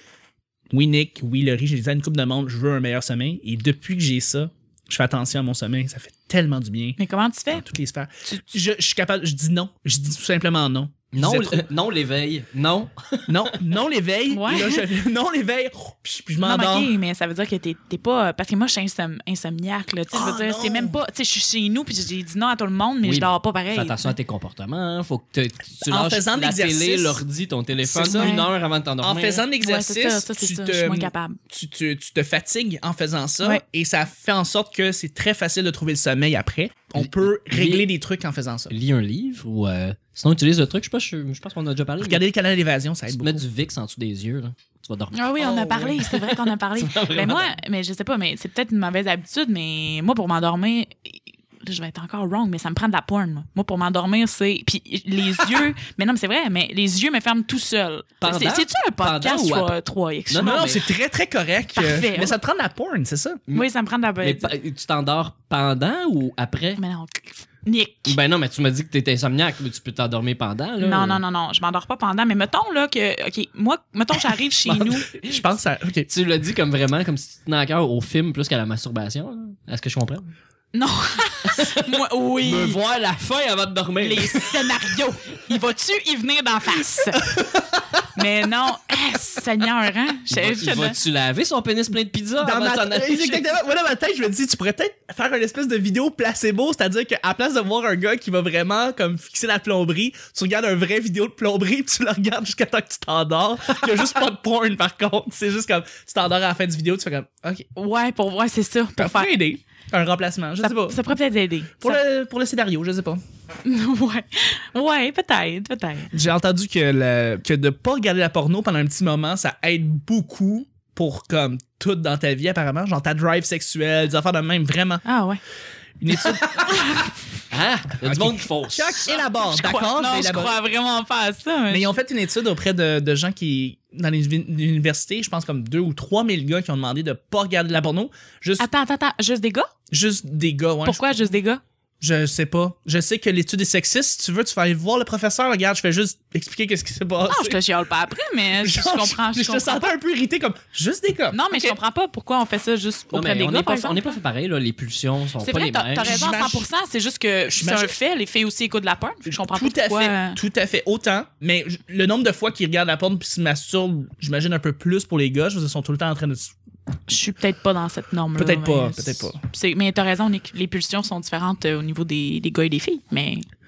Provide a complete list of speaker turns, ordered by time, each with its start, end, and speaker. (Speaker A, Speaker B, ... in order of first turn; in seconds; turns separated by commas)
Speaker A: 0.7-7.0, Speaker B: 7.0-7.6, Speaker A: 7.5-11.7, Speaker C: 11.1-13.6, Speaker A: 13.3-16.9, Speaker B: 14.3-14.9, Speaker B: 16.4-24.1, Speaker A: 20.1-20.9, Speaker C: 23.0-29.4, Speaker A: 25.9-27.2, Speaker A: 27.8-28.4, Speaker B: 28.1-28.5, Speaker A: 29.0-38.7, Speaker B: 29.6-31.4, Speaker C: 37.0-37.8, Speaker C: 38.7-42.2, Speaker A: 42.0-43.4, Speaker C: 43.1-47.6, Speaker B: 45.1-60.7, Speaker C: 58.2-59.7, Speaker C: 60.3-60.8, Speaker A: 60.4-63.4, Speaker B: 61.7-62.4, Speaker B: 63.5-64.5, Speaker C: 64.2-66.8, Speaker B: 66.8-68.2, Speaker C: 68.0-71.2, Speaker B: 70.8-75.4, Speaker C: 74.7-75.0, Speaker A: 75.2-76.1, Speaker C: 76.1-80.3, Speaker B: 80.7-82.8, Speaker C: 81.5-84.9, Speaker B: 84.0-87.3, Speaker B: 88.1-91.0, Speaker C: 90.3-93.4, Speaker A: 92.4-107.7, Speaker B: 107.7-109.4, Speaker A: 109.0-111.0, Speaker B: 110.6-112.0, Speaker A: 111.8-113.2, Speaker B: 113.6-116.1, Speaker A: 116.1-125.0, Speaker B: 125.0-125.4, Speaker A: 126.0-126.9, Speaker B: 126.3-127.1, Speaker C: 127.5-129.1, Speaker A: 128.0-130.6, Speaker B: 129.3-131.9, Speaker A: 131.7-138.7, Speaker B: 138.6-139.7, Speaker A: 139.9-141.2, Speaker B: 140.8-141.6, Speaker A: 142.0-147.6, Speaker B: 147.3-149.9, Speaker A: 148.6-151.8, Speaker B: 151.3-154.1, Speaker C: 153.1-156.2, Speaker B: 155.4-160.4, Speaker A: 156.0-156.7, Speaker A: 157.5-157.9, Speaker A: 159.2-166.5, Speaker B: 167.1-173.4, Speaker A: 168.3-169.4